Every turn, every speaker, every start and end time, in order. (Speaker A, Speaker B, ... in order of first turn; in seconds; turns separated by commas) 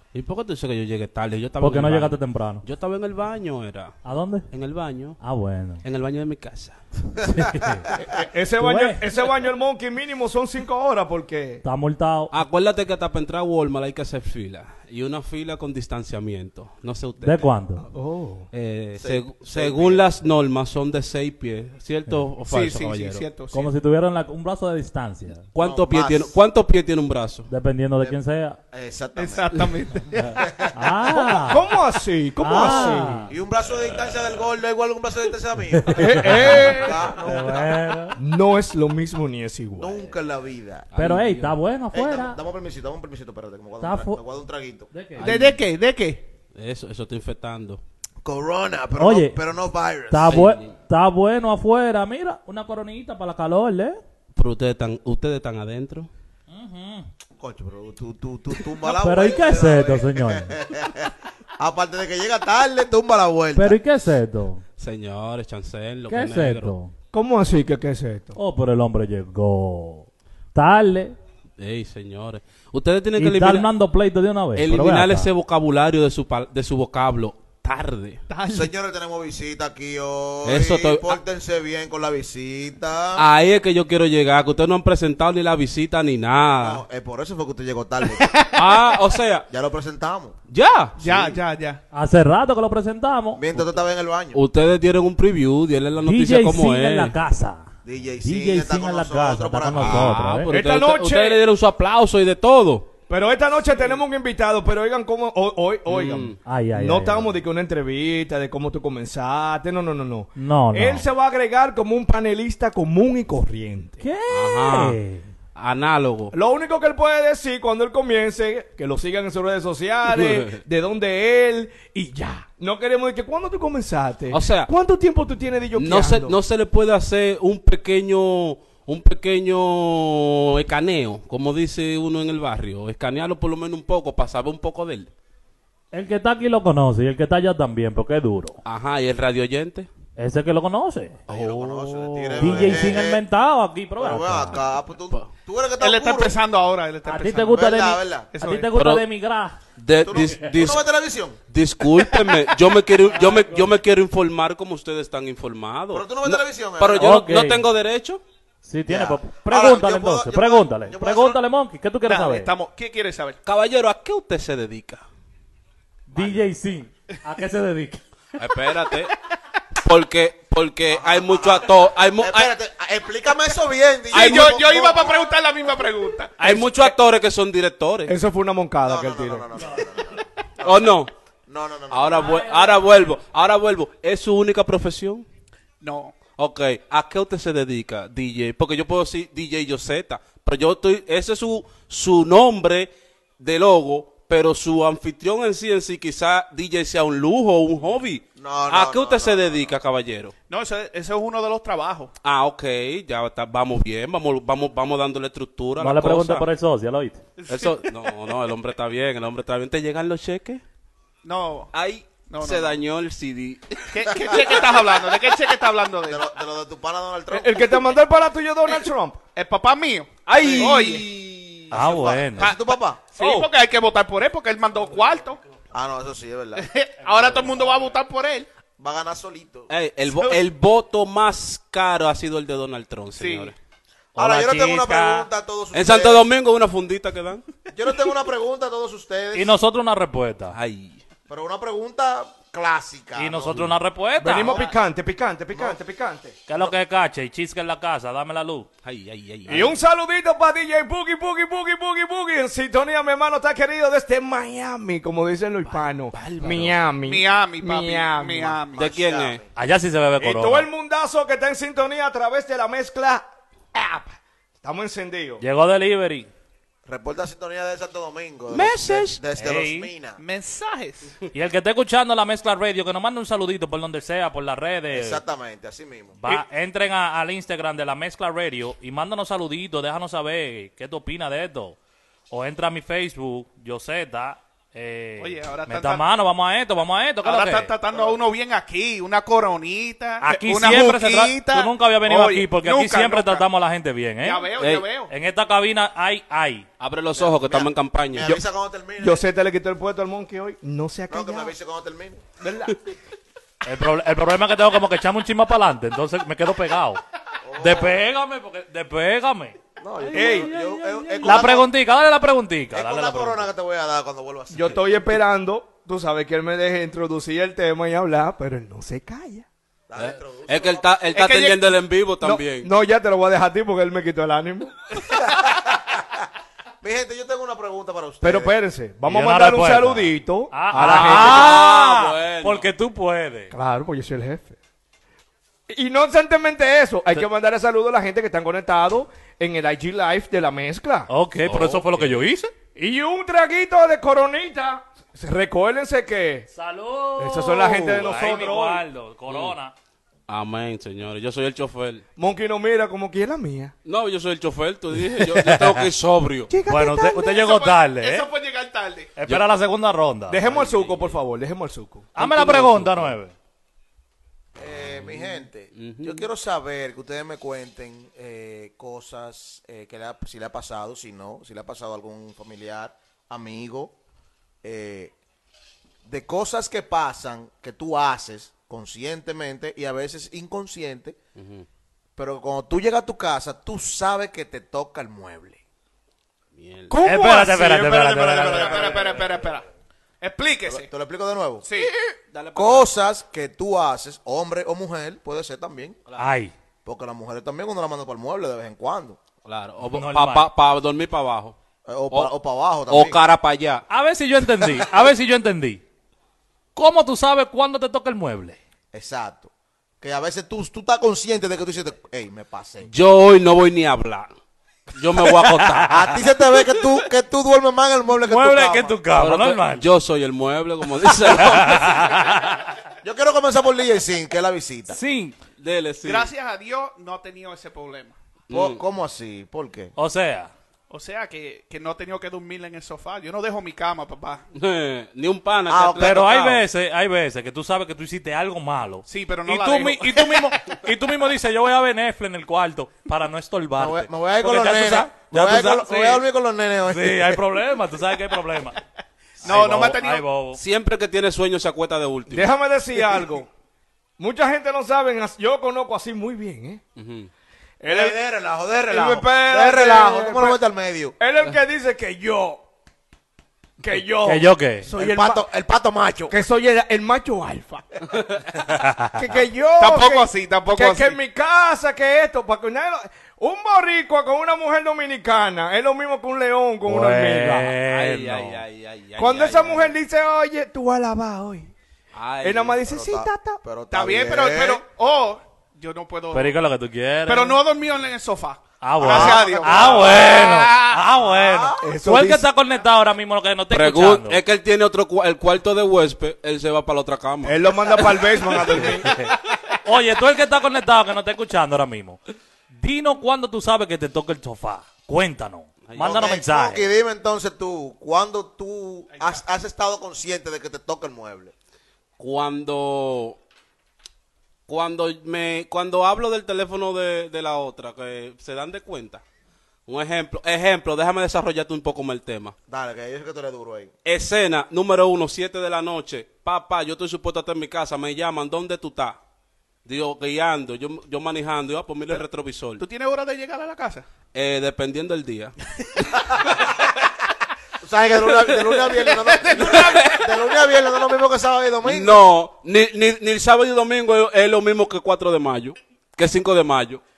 Speaker A: 0.1-4.0, Speaker B: 1.6-2.6, Speaker B: 4.0-4.5, Speaker A: 4.5-5.2, Speaker B: 5.2-5.8, Speaker A: 5.8-6.8, Speaker B: 7.2-7.9, Speaker C: 8.0-11.6, Speaker B: 8.6-9.0, Speaker B: 11.6-12.3, Speaker A: 12.3-17.5, Speaker B: 17.2-17.9, Speaker C: 17.9-18.5, Speaker A: 18.5-23.3, Speaker D: 19.0-20.1, Speaker E: 22.4-23.7, Speaker B: 23.5-25.4, Speaker A: 25.5-27.5, Speaker D: 25.6-26.3, Speaker B: 27.5-28.6, Speaker D: 28.7-29.7, Speaker E: 29.2-30.4, Speaker D: 30.3-30.9, Speaker B: 30.3-31.7, Speaker C: 31.1-33.2, Speaker B: 32.4-33.3, Speaker D: 33.3-37.8, Speaker B: 35.7-38.2, Speaker C: 36.0-36.9, Speaker C: 38.2-40.1, Speaker D: 39.8-40.9, Speaker A: 40.9-41.5, Speaker B: 41.0-42.4, Speaker D: 41.9-44.9, Speaker B: 43.8-44.2, Speaker B: 44.9-45.3, Speaker A: 45.2-45.6, Speaker E: 45.2-46.2, Speaker A: 46.5-47.8, Speaker D: 48.2-50.4, Speaker B: 49.0-49.3, Speaker B: 50.1-54.0, Speaker A: 50.3-50.7, Speaker A: 54.4-56.1, Speaker B: 56.5-57.1, Speaker D: 57.4-63.8, Speaker B: 58.8-60.6, Speaker B: 63.5-64.6, Speaker A: 64.8-66.7, Speaker B: 66.1-66.9, Speaker C: 67.1-68.4, Speaker B: 68.4-71.1, Speaker A: 71.6-73.7, Speaker B: 73.2-75.3, Speaker A: 74.6-78.2, Speaker E: 78.3-78.7, Speaker D: 78.5-83.2, Speaker A: 80.4-81.2, Speaker A: 83.2-86.8, Speaker D: 86.6-88.4, Speaker E: 88.2-89.0, Speaker A: 88.5-89.5, Speaker D: 89.5-90.3, Speaker A: 90.5-91.0, Speaker E: 91.0-91.8, Speaker D: 91.0-91.4, Speaker B: 91.9-93.5, Speaker D: 93.4-94.4, Speaker A: 94.3-97.1, Speaker B: 96.0-97.7, Speaker D: 97.8-100.2, Speaker B: 98.2-100.5, Speaker A: 99.8-102.9, Speaker C: 100.5-101.4, Speaker C: 103.1-114.0, Speaker A: 105.9-106.4, Speaker B: 106.4-107.4, Speaker B: 110.4-111.0, Speaker B: 114.0-115.3, Speaker A: 114.3-115.0, Speaker A: 115.5-116.3, Speaker C: 116.3-126.4, Speaker A: 120.1-120.6, Speaker A: 124.3-124.7, Speaker A: 125.8-135.1, Speaker B: 135.9-138.6, Speaker A: 138.7-139.9, Speaker B: 140.2-141.2, Speaker A: 141.3-143.0, Speaker D: 141.3-143.2, Speaker B: 142.3-144.6, Speaker D: 144.0-146.4, Speaker E: 145.8-147.6, Speaker B: 147.1-149.6, Speaker D: 147.5-148.3, Speaker E: 148.3-148.7, Speaker A: 148.8-149.1, Speaker A: 149.8-150.9, Speaker D: 150.0-151.4, Speaker B: 150.2-150.4, Speaker A: 151.5-158.2, Speaker E: 151.9-152.4, Speaker B: 153.1-153.7, Speaker D: 155.9-157.1, Speaker B: 156.9-157.7, Speaker B: 158.6-162.5, Speaker D: 158.9-161.4, Speaker E: 162.1-163.4, Speaker A: 163.4-165.0, Speaker B: 166.1-168.0, Speaker A: 168.4-169.1, Speaker A: 169.8-172.5, Speaker D: 170.9-175.2, Speaker E: 174.1-176.9, Speaker A: 174.1-174.6, Speaker A: 176.4-178.1, Speaker C: 178.1-179.4, Speaker D: 178.8-180.9, Speaker A: 180.6-181.1, Speaker D: 181.5-182.3, Speaker A: 181.9-185.2, Speaker B: 182.2-182.8, Speaker E: 185.8-186.1, Speaker A: 186.4-192.9, Speaker A: 193.4-200.3, Speaker D: 198.4-199.7, Speaker E: 200.5-202.1, Speaker A: 202.2-206.4, Speaker B: 205.8-207.2, Speaker E: 207.4-208.1, Speaker A: 207.5-210.6, Speaker E: 211.2-211.7, Speaker A: 211.7-214.8, Speaker E: 212.3-212.8, Speaker E: 213.9-216.2, Speaker D: 216.0-217.8, Speaker C: 217.3-219.2, Speaker E: 219.3-221.1, Speaker A: 220.2-221.7, Speaker B: 221.7-222.5, Speaker D: 221.7-223.0, Speaker E: 222.4-225.4, Speaker D: 225.7-226.7, Speaker E: 226.6-228.5, Speaker D: 228.8-229.7, Speaker A: 229.7-233.6, Speaker E: 233.2-233.5, Speaker B: 234.2-235.3, Speaker D: 234.2-236.2, Speaker A: 235.7-237.4, Speaker D: 237.7-239.6, Speaker B: 239.3-240.6, Speaker A: 240.5-241.0, Speaker D: 241.3-243.6, Speaker B: 243.2-244.6, Speaker C: 244.2-246.4, Speaker D: 244.3-244.8, Speaker B: 246.5-248.7, Speaker A: 248.8-249.8, Speaker C: 249.5-258.6, Speaker A: 256.1-256.8, Speaker E: 257.1-258.9, Speaker D: 258.8-259.5, Speaker A: 258.8-259.4, Speaker B: 259.6-260.7, Speaker C: 260.2-265.4, Speaker B: 265.4-266.3, Speaker D: 266.9-270.2, Speaker A: 268.5-269.2, Speaker B: 269.4-269.9, Speaker E: 270.2-271.2, Speaker B: 271.3-275.2, Speaker D: 274.9-276.2, Speaker B: 276.2-281.8, Speaker B: 282.3-287.7, Speaker E: 285.2-286.1, Speaker E: 287.2-293.5, Speaker B: 290.2-294.5, Speaker E: 294.2-295.1, Speaker A: 294.6-294.9, Speaker B: 295.1-296.7, Speaker A: 296.8-298.3, Speaker D: 297.2-299.2, Speaker C: 299.0-301.5, Speaker D: 301.1-302.2, Speaker C: 302.4-302.7, Speaker B: 303.6-307.0, Speaker D: 307.4-308.0, Speaker B: 307.6-309.6, Speaker D: 309.8-311.7, Speaker C: 310.1-310.6, Speaker B: 310.2-313.5, Speaker A: 310.3-311.6, Speaker D: 312.7-314.8, Speaker C: 314.5-319.5, Speaker D: 319.9-320.9, Speaker A: 320.0-322.7, Speaker E: 321.1-321.7, Speaker C: 322.2-324.7, Speaker D: 325.1-326.0, Speaker D: 326.8-328.6, Speaker C: 328.2-331.6, Speaker B: 329.1-333.5, Speaker A: 330.7-332.7, Speaker C: 333.5-334.6, Speaker C: 335.7-341.1, Speaker B: 341.1-342.5, Speaker A: 341.5-342.2, Speaker C: 342.8-346.5, Speaker B: 346.6-349.7, Speaker C: 347.2-348.9, Speaker A: 350.3-352.0, Speaker C: 352.2-353.7, Speaker A: 353.9-356.5, Speaker B: 355.2-355.9, Speaker C: 356.5-357.4, Speaker B: 356.7-358.3, Speaker E: 357.2-359.1, Speaker B: 359.2-360.4, Speaker C: 360.3-362.2, Speaker A: 360.4-361.2, Speaker B: 362.1-363.3, Speaker A: 362.2-363.1, Speaker D: 364.6-373.9, Speaker A: 364.9-366.2, Speaker D: 374.6-375.1, Speaker D: 376.1-381.2, Speaker A: 381.4-381.7, Speaker D: 382.2-385.6, Speaker A: 386.6-387.0, Speaker E: 387.0-389.7, Speaker B: 387.0-389.4, Speaker D: 387.3-389.2, Speaker E: 390.2-390.9, Speaker D: 390.7-391.6, Speaker E: 391.6-391.9, Speaker A: 392.3-392.9, Speaker D: 392.6-396.0, Speaker B: 396.2-396.5, Speaker D: 396.9-399.2, Speaker A: 399.4-401.6, Speaker B: 399.9-400.5, Speaker D: 401.9-403.2, Speaker A: 402.9-403.9, Speaker B: 403.9-405.8, Speaker D: 404.6-404.9, Speaker B: 406.8-408.6, Speaker D: 408.9-409.5, Speaker D: 410.0-412.9, Speaker A: 412.9-414.3, Speaker A: 414.9-415.9, Speaker B: 415.2-416.8, Speaker D: 415.9-419.0, Speaker B: 418.3-419.9, Speaker A: 419.2-422.1, Speaker B: 421.0-422.7, Speaker D: 423.0-425.0, Speaker B: 424.9-425.4, Speaker A: 425.6-426.3, Speaker E: 426.0-428.2, Speaker A: 428.5-428.8, Speaker D: 428.5-429.9, Speaker B: 430.0-430.5, Speaker E: 430.9-434.4, Speaker A: 434.5-436.5, Speaker D: 435.7-436.6, Speaker B: 436.0-446.2, Speaker E: 439.1-440.8, Speaker D: 443.8-447.4, Speaker B: 446.9-448.8, Speaker E: 449.4-450.2, Speaker B: 449.4-450.6, Speaker A: 450.6-452.5, Speaker C: 452.3-453.5, Speaker C: 454.2-456.8, Speaker A: 457.0-457.3, Speaker C: 457.8-458.2, Speaker D: 457.9-461.1, Speaker C: 458.9-460.6, Speaker C: 461.2-462.6, Speaker C: 463.8-465.5, Speaker B: 464.2-464.9, Speaker D: 464.9-466.4, Speaker C: 466.3-467.9, Speaker B: 468.6-469.2, Speaker C: 469.1-477.8, Speaker E: 469.8-471.2, Speaker B: 476.9-478.6, Speaker A: 477.9-480.0, Speaker C: 479.2-481.7, Speaker A: 482.1-482.8, Speaker C: 482.4-483.6, Speaker D: 482.8-484.9, Speaker E: 483.9-486.6, Speaker B: 486.3-487.6, Speaker E: 487.2-491.2, Speaker B: 488.8-494.4, Speaker D: 489.0-490.3, Speaker C: 489.1-489.6, Speaker D: 491.1-491.9, Speaker C: 491.8-492.5, Speaker A: 493.7-498.9, Speaker C: 497.4-499.1, Speaker B: 499.0-502.2, Speaker B: 502.8-506.9, Speaker A: 505.9-506.3, Speaker D: 506.0-511.5, Speaker E: 509.1-509.4, Speaker A: 512.2-513.4, Speaker A: 514.7-519.2, Speaker A: 519.9-522.5, Speaker D: 522.7-523.9, Speaker A: 524.0-529.2, Speaker A: 529.9-532.8, Speaker E: 532.8-534.0, Speaker A: 534.3-536.0, Speaker D: 537.8-542.2, Speaker E: 538.5-540.3, Speaker A: 539.7-540.2, Speaker A: 541.8-547.0